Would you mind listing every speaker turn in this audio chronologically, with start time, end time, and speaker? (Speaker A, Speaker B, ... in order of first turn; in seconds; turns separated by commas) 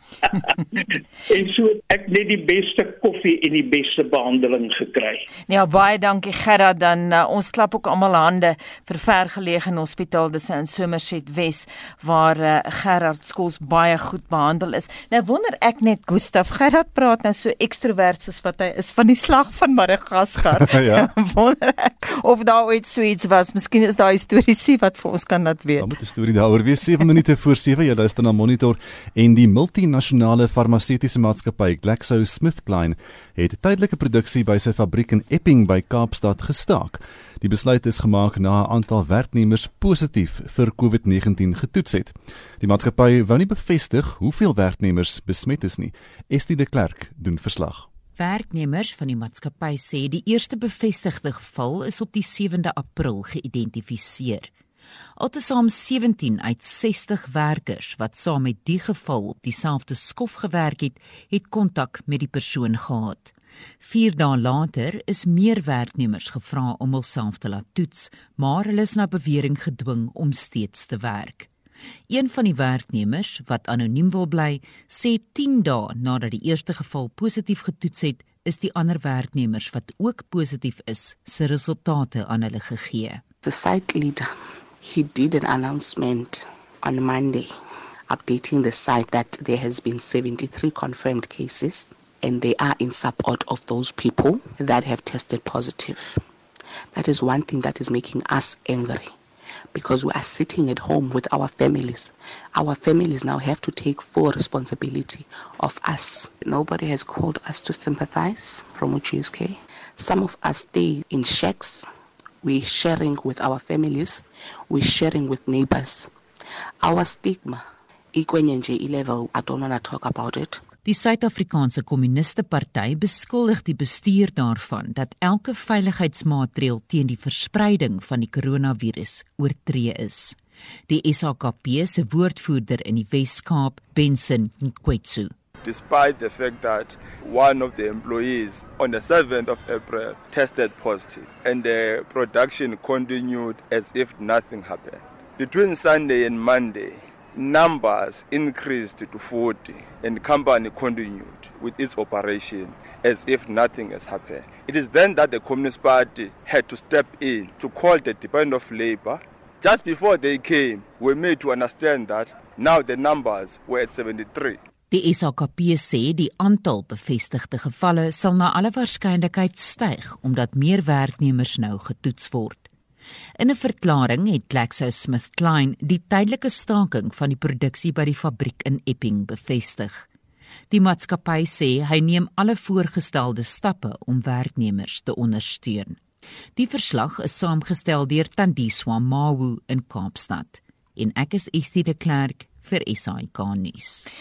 Speaker A: 0.2-5.2, Speaker B: 5.5-25.9, Speaker C: 20.6-21.1, Speaker C: 25.8-47.9, Speaker D: 48.1-54.5, Speaker D: 55.2-71.5, Speaker D: 72.1-83.2, Speaker E: 83.4-84.3, Speaker E: 84.8-87.5, Speaker E: 88.1-96.2, Speaker E: 96.9-99.1, Speaker E: 99.7-111.9, Speaker E: 112.4-116.1, Speaker E: 116.8-117.6, Speaker E: 118.1-120.6, Speaker D: 120.8-135.3, Speaker F: 135.6-164.6, Speaker D: 164.9-172.7, Speaker D: 173.4-180.1, Speaker D: 180.7-186.0, Speaker D: 186.6-194.1